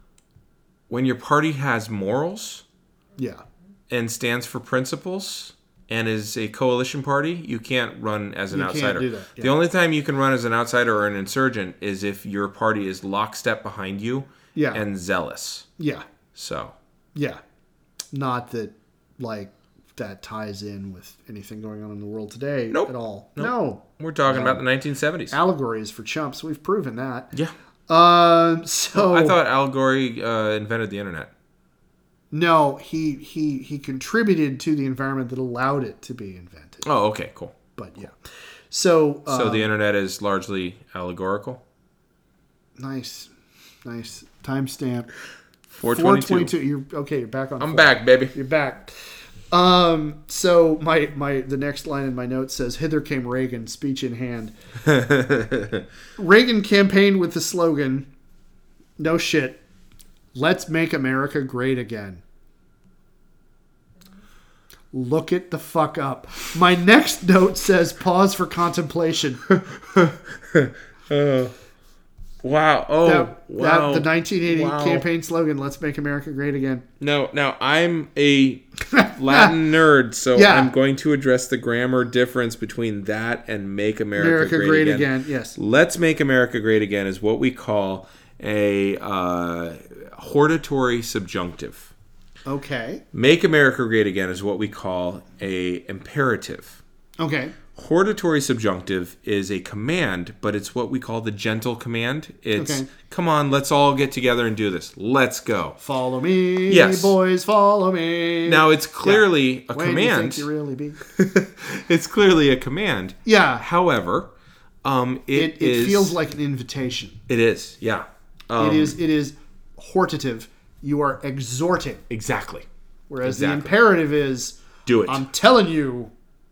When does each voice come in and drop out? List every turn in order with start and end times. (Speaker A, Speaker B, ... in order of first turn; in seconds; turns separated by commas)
Speaker A: 0.9-2.6, Speaker A: 3.9-15.7, Speaker B: 8.5-9.5, Speaker B: 14.6-14.8, Speaker B: 15.8-16.1, Speaker A: 16.4-16.7, Speaker B: 17.1-17.4, Speaker B: 18.1-24.6, Speaker A: 22.7-25.4, Speaker B: 25.3-27.3, Speaker B: 27.9-29.4, Speaker A: 28.9-31.3, Speaker B: 32.3-36.9, Speaker A: 36.8-37.6, Speaker B: 37.8-38.1, Speaker B: 38.7-39.7, Speaker A: 39.3-41.6, Speaker B: 42.8-43.3, Speaker B: 43.9-45.1, Speaker A: 45.7-46.5, Speaker B: 45.9-54.5, Speaker A: 47.6-48.3, Speaker A: 54.9-55.8, Speaker B: 56.2-58.1, Speaker B: 59.0-59.6, Speaker B: 60.4-62.2, Speaker B: 64.9-69.4, Speaker A: 69.5-71.5, Speaker A: 72.4-75.1, Speaker B: 73.0-76.8, Speaker A: 77.0-91.9, Speaker B: 78.9-79.5, Speaker B: 80.3-80.7, Speaker B: 84.2-85.6, Speaker B: 92.5-93.0, Speaker A: 93.1-96.8, Speaker B: 97.2-97.6, Speaker A: 97.7-105.8, Speaker B: 102.6-102.9, Speaker B: 105.8-111.0, Speaker A: 106.7-107.2, Speaker A: 108.5-110.5, Speaker A: 111.0-114.3, Speaker B: 113.2-113.6, Speaker A: 114.8-116.2, Speaker B: 115.3-117.2, Speaker A: 117.3-119.0, Speaker B: 118.6-122.0, Speaker A: 122.1-122.7, Speaker B: 123.1-126.1, Speaker A: 123.2-123.8, Speaker A: 124.9-125.2